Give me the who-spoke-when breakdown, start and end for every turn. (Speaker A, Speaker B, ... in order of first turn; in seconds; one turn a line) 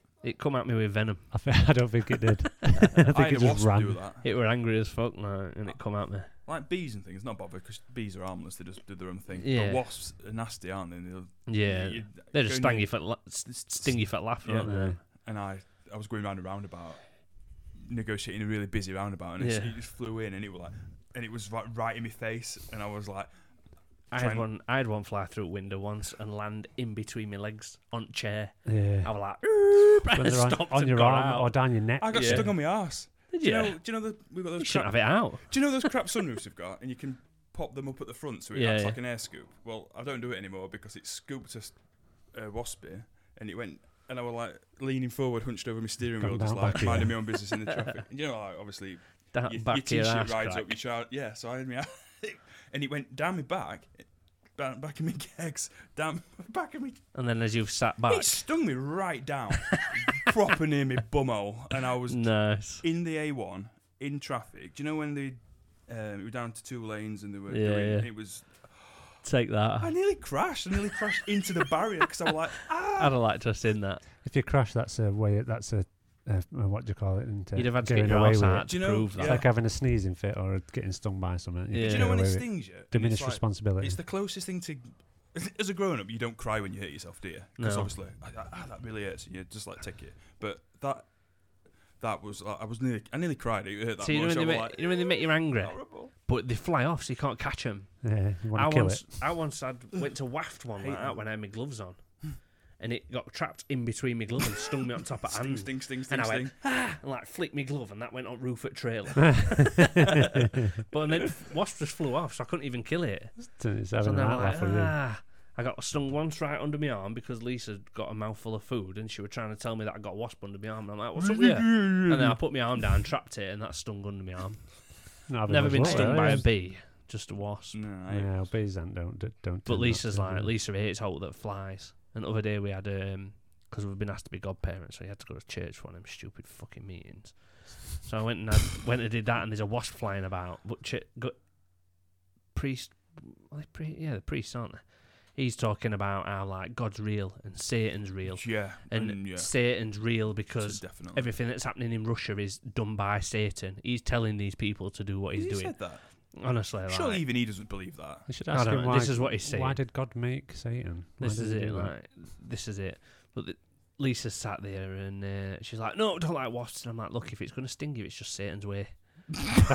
Speaker A: 0.2-1.9
Speaker B: 1.3-4.0
Speaker C: 3.0-4.3
Speaker A: 4.2-6.3
Speaker C: 5.7-24.5
Speaker A: 9.4-9.8
Speaker A: 11.5-15.0
Speaker B: 14.6-15.0
Speaker A: 19.4-19.8
Speaker A: 24.1-35.9
Speaker B: 28.6-29.3
Speaker B: 30.1-32.6
Speaker C: 32.0-57.1
Speaker A: 38.5-39.0
Speaker B: 46.2-47.2
Speaker A: 49.3-50.7
Speaker A: 57.1-58.6
Speaker C: 58.1-69.2
Speaker A: 59.8-60.2
Speaker A: 62.1-62.8
Speaker A: 67.5-68.1
Speaker A: 69.2-70.0
Speaker C: 69.8-73.2
Speaker A: 72.9-74.0
Speaker B: 74.2-84.0
Speaker A: 77.5-79.5
Speaker C: 78.7-79.5
Speaker A: 81.7-82.1
Speaker C: 81.8-96.1
Speaker A: 87.6-87.9
Speaker A: 94.0-98.0
Speaker B: 98.0-99.2
Speaker A: 98.5-127.8
Speaker C: 100.8-101.2
Speaker C: 105.2-106.5
Speaker B: 109.5-110.1
Speaker B: 113.4-115.0
Speaker C: 121.2-122.5
Speaker B: 125.3-126.5
Speaker C: 125.8-126.3
Speaker C: 127.7-128.5
Speaker B: 128.1-130.5
Speaker A: 129.7-141.5
Speaker A: 142.5-157.2
Speaker C: 148.3-151.3
Speaker C: 155.3-158.3
Speaker B: 158.3-161.9
Speaker A: 158.5-159.8
Speaker A: 161.2-169.6